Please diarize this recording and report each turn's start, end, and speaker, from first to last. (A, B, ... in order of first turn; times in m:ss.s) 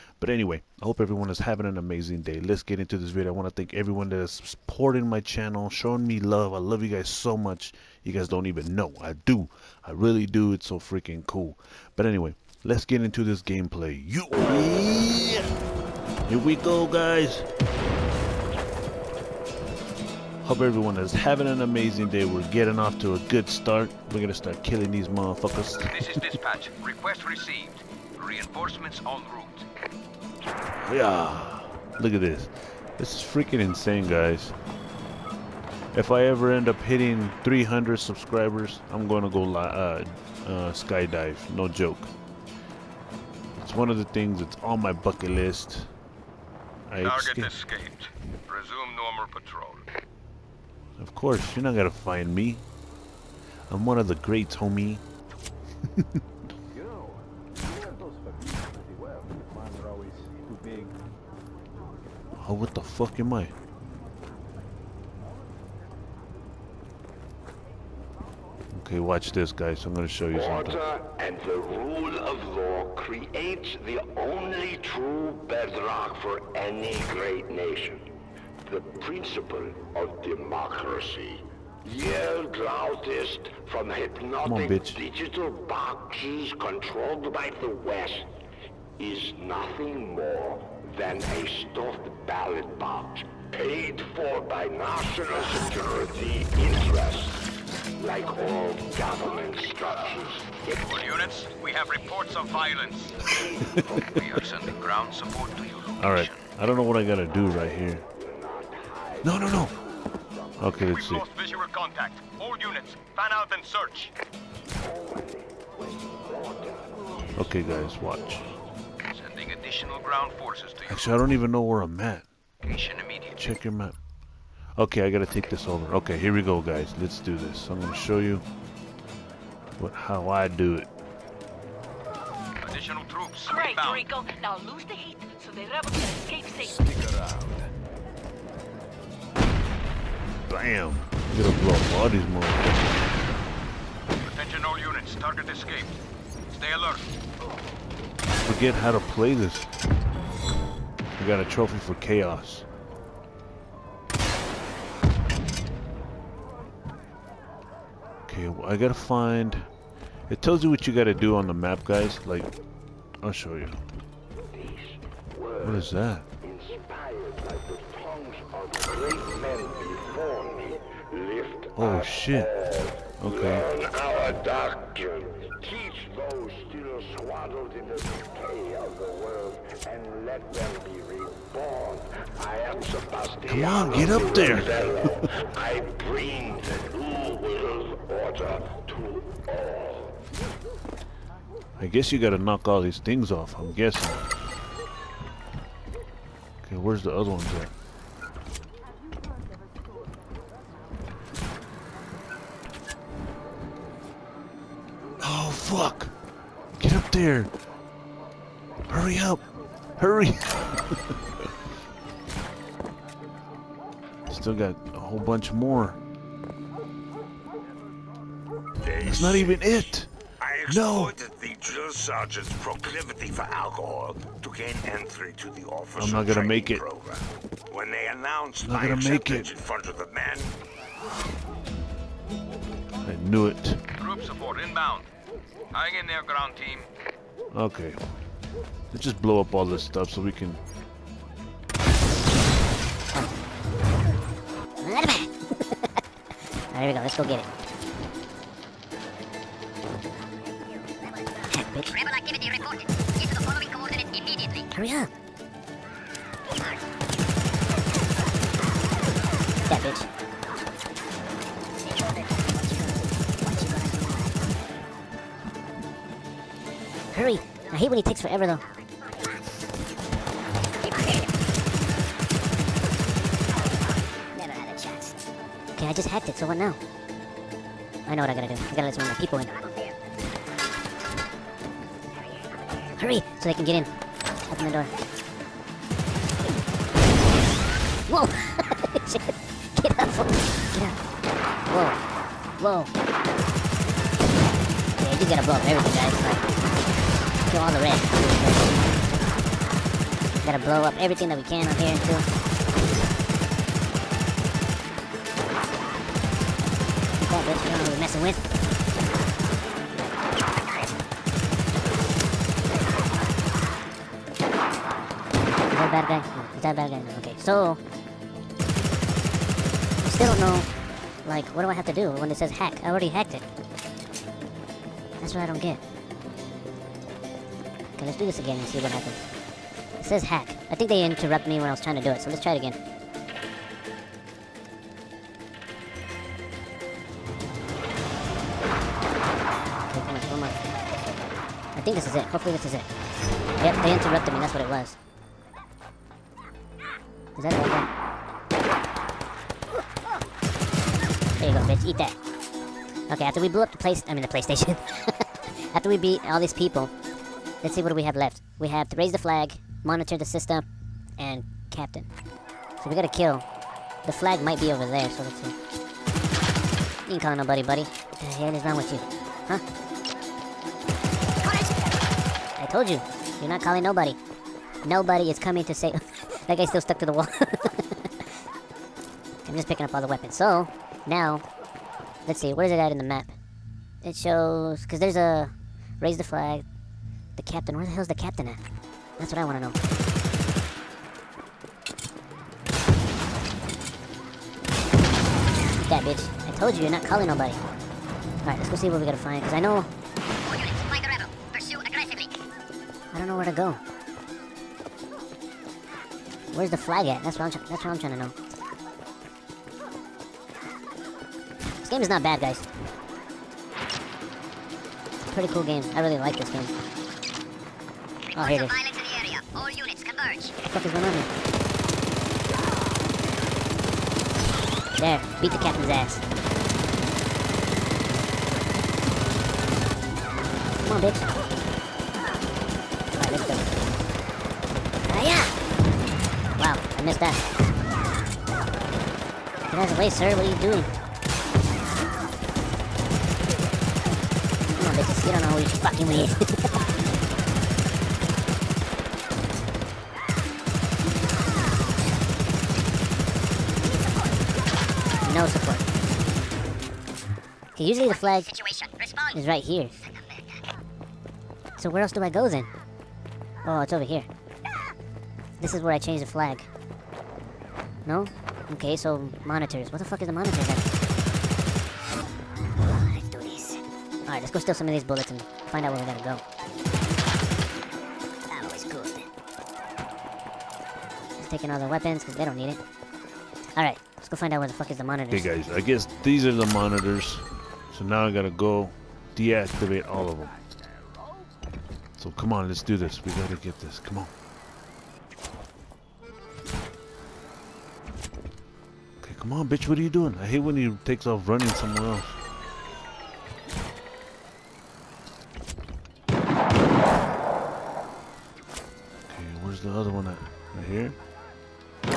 0:00.2-0:15.5 A
0:16.2-0:17.5 A
0:20.4-0:26.3 A
0:25.9-0:29.7 B
0:30.8-0:34.6 A
0:35.9-0:42.1 A
0:43.6-0:45.9 A
0:46.9-0:47.5 A
0:47.0-0:49.8 B
0:51.0-0:52.6 A
0:53.7-0:55.0 A
0:56.7-1:01.0 C
1:02.4-1:03.5 A
1:08.7-1:10.8 A
1:10.3-1:18.1 D
1:18.6-1:28.3 D
1:24.4-1:25.0 A
1:29.0-1:37.4 D
1:38.0-1:40.7 D
1:40.7-1:46.4 B
1:43.4-1:44.2 A
1:46.0-1:48.0 A
1:48.1-1:50.8 D
1:49.2-1:49.7 A
1:50.6-1:51.2 A
1:50.9-1:54.1 B
1:54.8-1:57.5 D
1:57.3-1:58.5 A
1:59.1-2:01.2 B
2:00.8-2:02.3 A
2:02.6-2:03.4 B
2:03.3-2:04.0 A
2:04.8-2:08.4 A
2:09.8-2:10.9 A
2:12.6-2:14.1 B
2:13.5-2:16.8 E
2:16.6-2:17.7 F
2:20.5-2:23.0 A
2:24.2-2:26.0 B
2:26.5-2:27.0 B
2:28.4-2:29.7 A
2:31.2-2:32.7 A
2:38.3-2:39.7 A
2:40.3-2:42.5 A
2:43.2-2:43.8 A
2:44.5-3:10.2 D
2:45.6-2:46.3 A
2:51.8-2:52.5 A
2:53.2-2:53.7 A
3:03.5-3:05.3 A
3:11.8-3:14.3 A
3:16.6-3:17.7 A
3:25.2-3:26.1 A
3:26.8-3:27.5 A
3:28.9-3:29.4 A
3:30.0-3:31.4 A
3:34.3-3:36.0 A
3:38.8-3:50.5 F
3:39.0-3:40.1 A
3:40.6-3:41.1 A
3:46.0-3:46.8 A
3:48.6-3:49.5 A
3:53.0-3:53.8 A
3:54.0-3:55.1 B
3:55.7-3:56.9 B
3:57.5-3:58.0 A
3:58.9-4:00.6 A
4:04.8-4:05.9 G
4:06.7-4:07.5 G
4:11.5-4:11.9 G
4:11.9-4:14.7 H
4:14.7-4:15.1 G
4:19.6-4:20.1 G
4:22.0-4:23.0 H
4:23.5-4:24.4 H
4:27.1-4:28.6 G
4:34.3-4:35.2 H
4:35.8-4:36.8 G
4:38.1-4:39.5 G
4:39.6-4:39.9 H
4:43.0-4:43.9 G
4:44.5-4:44.9 G
4:48.1-4:50.9 G
4:51.7-4:52.0 G
4:52.6-4:52.9 G
4:55.0-4:56.4 G
4:57.4-4:58.8 G
5:00.4-5:02.3 G
5:07.2-5:08.4 G
5:15.7-5:17.8 G
5:20.0-5:20.7 G
5:21.2-5:23.4 G
5:25.2-5:25.8 G
5:28.0-5:29.2 G
5:30.0-5:32.8 G
5:39.8-5:40.6 G
5:41.7-5:42.9 G
5:43.6-5:45.0 G
5:47.4-5:47.9 G
5:51.4-5:52.2 G
5:53.1-5:56.9 G
5:57.6-6:00.6 G
6:01.2-6:02.1 G
6:02.8-6:03.4 G
6:04.0-6:05.5 G
6:07.0-6:09.6 G
6:11.4-6:11.7 G
6:12.6-6:14.2 G
6:14.8-6:18.0 G
6:19.4-6:21.4 G
6:22.2-6:23.3 G
6:24.0-6:26.6 G
6:27.4-6:28.6 G
6:29.2-6:29.8 G
6:35.8-6:37.6 G
6:38.4-6:39.9 G
6:40.4-6:42.4 H
6:43.1-6:43.8 G
6:46.5-6:48.3 G
6:51.8-6:52.6 G
6:55.2-6:56.7 G
6:58.3-7:00.5 H
6:58.4-6:58.8 G
7:00.6-7:01.3 G
7:05.0-7:06.2 G
7:10.8-7:11.3 G
7:13.2-7:13.7 G
7:15.1-7:15.5 G
7:16.6-7:17.4 G
7:19.7-7:20.9 G
7:24.7-7:26.4 G
7:35.2-7:35.8 G
7:37.7-7:38.5 G
7:38.1-7:39.3 H
7:39.3-7:39.9 G
7:40.1-7:40.6 H
7:41.8-7:42.7 G
7:43.6-7:44.3 G
7:45.6-7:46.7 G
7:48.0-7:50.9 G
7:52.9-7:56.4 G
7:58.8-7:59.2 H
8:01.4-8:02.8 G
8:03.8-8:05.5 G
8:05.3-8:10.6 A
8:12.2-8:14.3 A
8:19.2-8:22.4 A
8:29.3-8:31.2 A